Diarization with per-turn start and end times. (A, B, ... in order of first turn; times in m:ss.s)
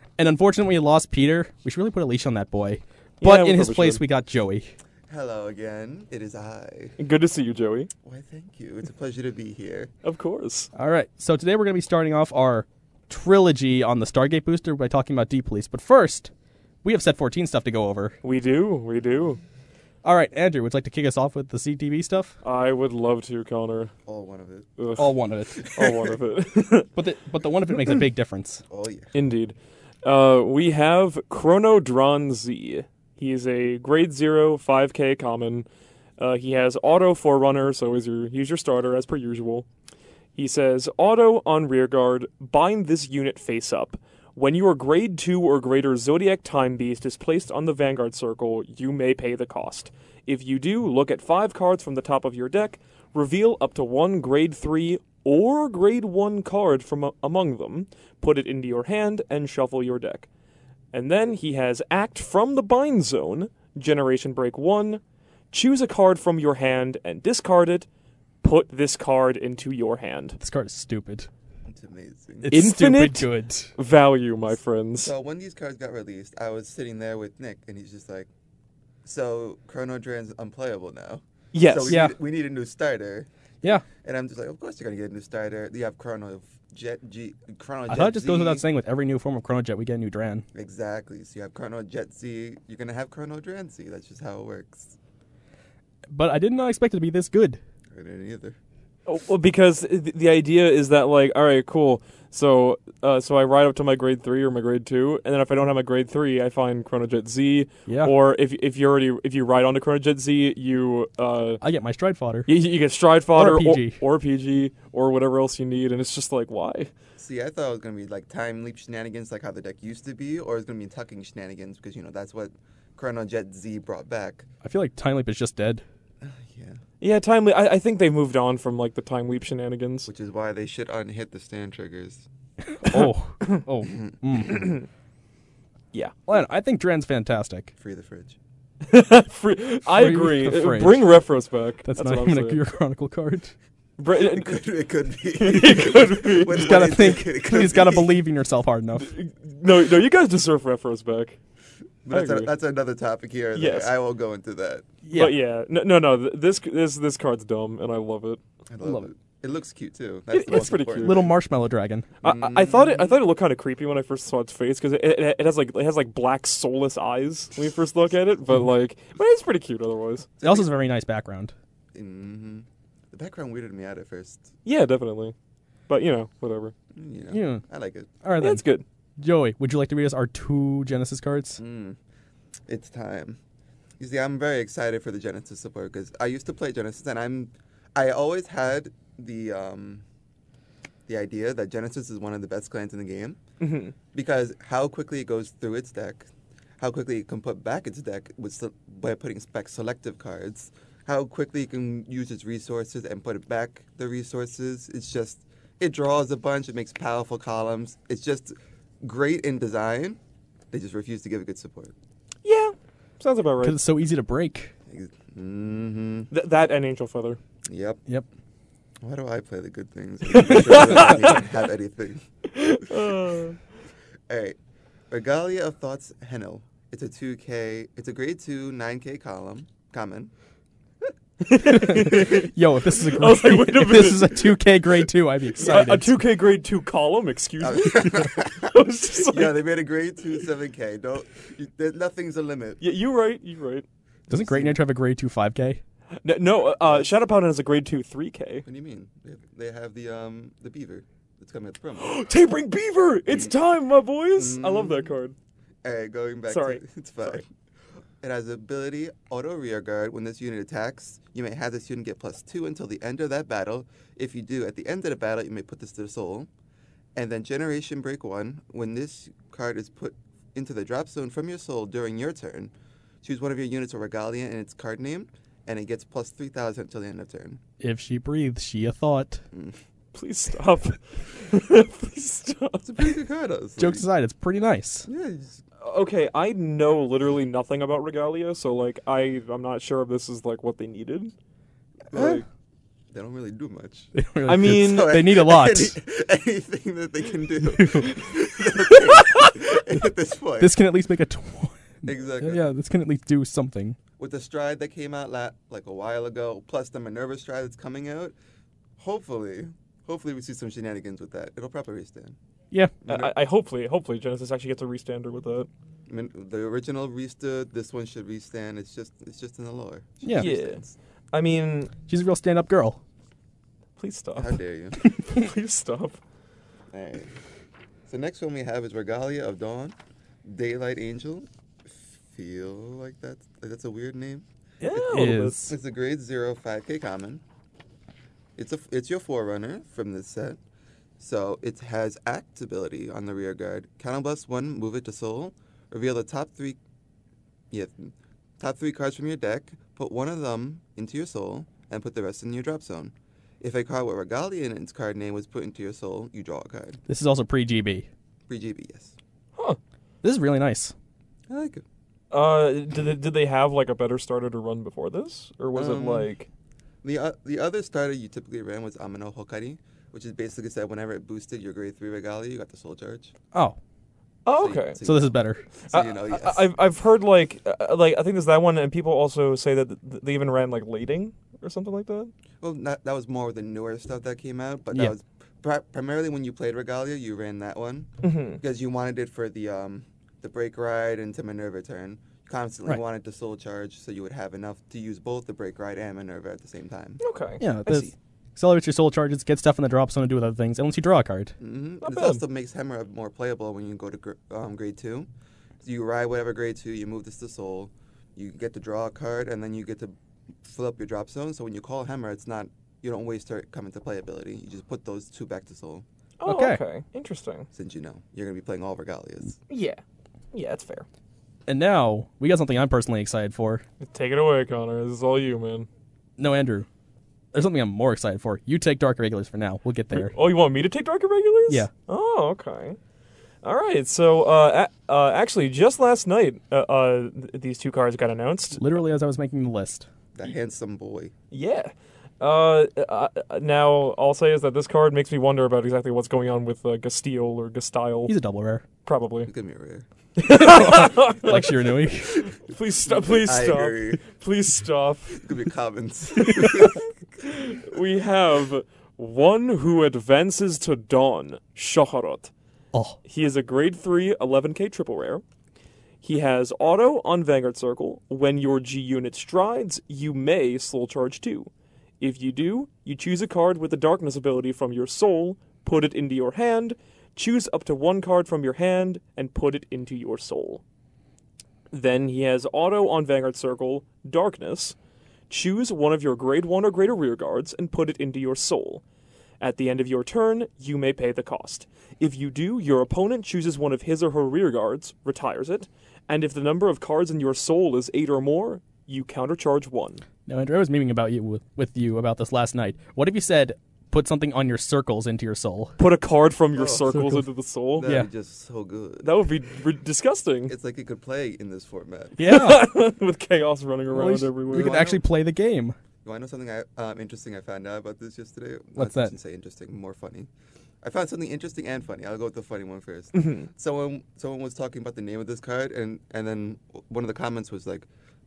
0:00.2-0:04.7 A
0:03.2-0:04.0 B
0:05.1-0:07.0 C
0:07.0-0:07.9 B
0:08.0-0:09.9 C
0:10.0-0:10.7 B
0:10.7-0:16.3 A
0:16.8-0:18.2 A
0:18.2-0:19.4 B
0:20.0-0:22.3 A
0:22.4-0:23.9 B
0:24.0-0:24.7 C
0:24.8-0:25.1 B
0:25.0-0:25.7 A
0:25.6-0:26.0 C
0:25.7-0:26.9 B
0:27.0-0:28.6 A
0:28.7-0:29.1 C
0:29.1-0:35.6 B
0:36.2-0:39.6 B
0:40.4-1:00.3 B
1:00.9-1:05.0 B
1:05.5-1:07.8 B
1:08.4-1:10.4 B
1:10.4-1:11.3 A
1:11.7-1:12.6 C
1:12.4-1:13.7 A
1:12.5-1:15.1 B
1:15.0-1:18.3 C
1:19.0-1:28.6 C
1:21.5-1:22.0 B
1:21.9-1:22.1 A
1:27.9-1:30.4 A
1:30.5-1:35.0 C
1:36.1-1:37.6 A
1:37.9-1:38.6 C
1:39.0-1:51.6 B
1:47.9-1:48.1 A
1:51.6-1:52.5 A
1:52.5-1:56.9 B
1:53.3-1:54.0 A
1:57.2-2:04.5 C
2:04.6-2:05.8 A
2:06.2-2:06.8 C
2:07.0-2:10.1 B
2:10.1-2:12.2 C
2:12.7-2:14.7 A
2:12.9-2:13.6 B
2:13.8-2:14.7 C
2:16.3-2:17.7 A
2:17.8-2:18.4 C
2:18.8-2:22.6 B
2:19.9-2:21.0 A
2:21.8-2:23.5 A
2:24.0-2:24.6 B
2:24.2-2:28.1 C
2:25.3-2:27.1 B
2:26.5-2:29.1 A
2:29.0-2:31.4 B
2:32.0-2:34.9 C
2:32.1-2:32.5 B
2:33.5-2:33.9 B
2:35.0-2:35.3 A
2:35.1-2:39.1 B
2:38.7-2:41.3 C
2:40.3-2:41.3 B
2:41.0-2:42.1 A
2:42.2-2:50.3 B
2:42.2-2:43.2 C
2:50.4-2:50.7 C
2:50.4-2:51.5 A
2:51.9-2:54.5 C
2:54.6-2:55.3 B
2:55.9-2:56.7 B
2:56.9-2:58.1 C
2:57.3-2:57.6 A
2:58.2-2:58.6 A
2:58.4-2:58.8 B
2:59.2-3:01.6 A
3:01.6-3:02.0 C
3:02.7-3:03.4 C
3:04.0-3:10.0 C
3:11.1-3:13.4 C
3:13.6-3:13.9 B
3:14.1-3:16.3 C
3:16.8-3:30.2 C
3:30.7-3:31.9 C
3:32.4-3:33.8 B
3:33.6-3:34.7 A
3:34.9-3:36.3 C
3:36.3-3:37.4 B
3:37.6-3:38.0 C
3:39.0-3:43.1 C
3:40.3-3:41.4 B
3:42.5-3:43.6 B
3:44.3-3:44.6 C
3:45.1-3:50.3 C
3:51.4-3:54.6 B
3:51.6-3:56.2 A
3:55.6-3:59.6 B
3:57.6-3:58.7 C
3:59.3-4:02.8 C
4:02.8-4:03.8 B
4:04.3-4:04.8 C
4:04.3-4:05.8 A
4:06.2-4:08.6 B
4:06.8-4:07.1 C
4:08.6-4:12.2 C
4:12.0-4:15.4 B
4:14.4-4:15.1 C
4:15.8-4:17.5 C
4:16.5-4:17.4 B
4:18.2-4:26.5 C
4:27.2-4:37.6 C
4:37.8-4:39.4 A
4:40.1-4:43.1 B
4:42.8-4:44.0 C
4:43.8-4:45.1 A
4:45.0-4:45.6 C
4:45.8-4:51.3 B
4:52.1-4:52.4 C
4:52.1-4:52.4 B
4:53.1-5:00.8 C
4:54.1-4:56.0 A
4:54.4-4:55.1 B
4:57.6-4:58.2 A
4:58.9-4:59.4 A
5:00.6-5:04.0 A
5:02.0-5:02.7 C
5:04.2-5:08.3 C
5:09.0-5:12.4 C
5:13.0-5:13.3 C
5:13.0-5:15.7 B
5:16.1-5:20.9 C
5:20.2-5:20.5 A
5:20.4-5:21.9 B
5:22.1-5:23.0 A
5:24.0-5:24.6 B
5:24.4-5:25.0 C
5:25.1-5:26.2 B
5:26.9-5:27.3 C
5:28.1-5:37.4 C
5:34.8-5:35.7 B
5:35.1-5:35.7 A
5:38.6-5:40.6 C
5:41.2-5:46.8 C
5:47.7-5:57.0 C
5:57.1-5:58.1 A
5:58.5-5:59.1 C
6:00.2-6:00.9 A
6:01.5-6:01.8 C
6:02.3-6:06.5 B
6:05.7-6:06.3 C
6:07.0-6:13.3 C
6:14.4-6:15.0 B
6:14.5-6:16.7 C
6:15.0-6:15.6 A
6:15.9-6:22.3 B
6:22.6-6:37.2 C
6:28.2-6:28.6 B
6:37.2-6:38.1 B
6:37.6-6:41.5 A
6:41.6-6:45.3 C
6:42.0-6:42.4 B
6:45.8-6:56.0 C
6:56.4-6:57.7 B
6:56.4-6:56.8 A
6:57.7-6:59.6 C
6:59.7-7:00.0 B
7:00.5-7:01.0 B
7:01.7-7:03.8 A
7:04.0-7:05.9 B
7:06.4-7:06.9 A
7:07.5-7:10.3 A
7:10.1-7:13.0 B
7:13.6-7:18.8 B
7:18.8-7:20.1 A
7:20.3-7:21.3 C
7:21.5-7:28.3 B
7:28.3-7:28.8 A
7:29.0-7:29.5 B
7:29.5-7:30.0 C
7:30.4-7:35.4 B
7:30.5-7:32.4 A
7:33.0-7:34.2 C
7:35.4-7:37.0 C
7:36.4-7:42.5 B
7:42.9-7:43.2 A
7:43.2-7:45.4 B
7:46.2-8:00.8 B
8:01.9-8:05.0 B
8:05.5-8:09.0 B
8:09.6-8:20.2 B
8:20.5-8:25.9 A
8:26.0-8:28.1 B
8:26.7-8:27.1 C
8:27.1-8:27.4 A
8:28.0-8:29.3 C
8:28.0-8:28.3 A
8:29.2-8:30.7 B
8:30.7-8:32.4 C
8:32.4-8:32.9 A
8:32.4-8:35.0 B
8:34.1-8:35.9 A
8:34.7-8:35.2 C
8:36.2-8:40.5 C
8:39.0-8:39.3 A
8:41.0-8:48.1 C
8:43.4-8:43.7 B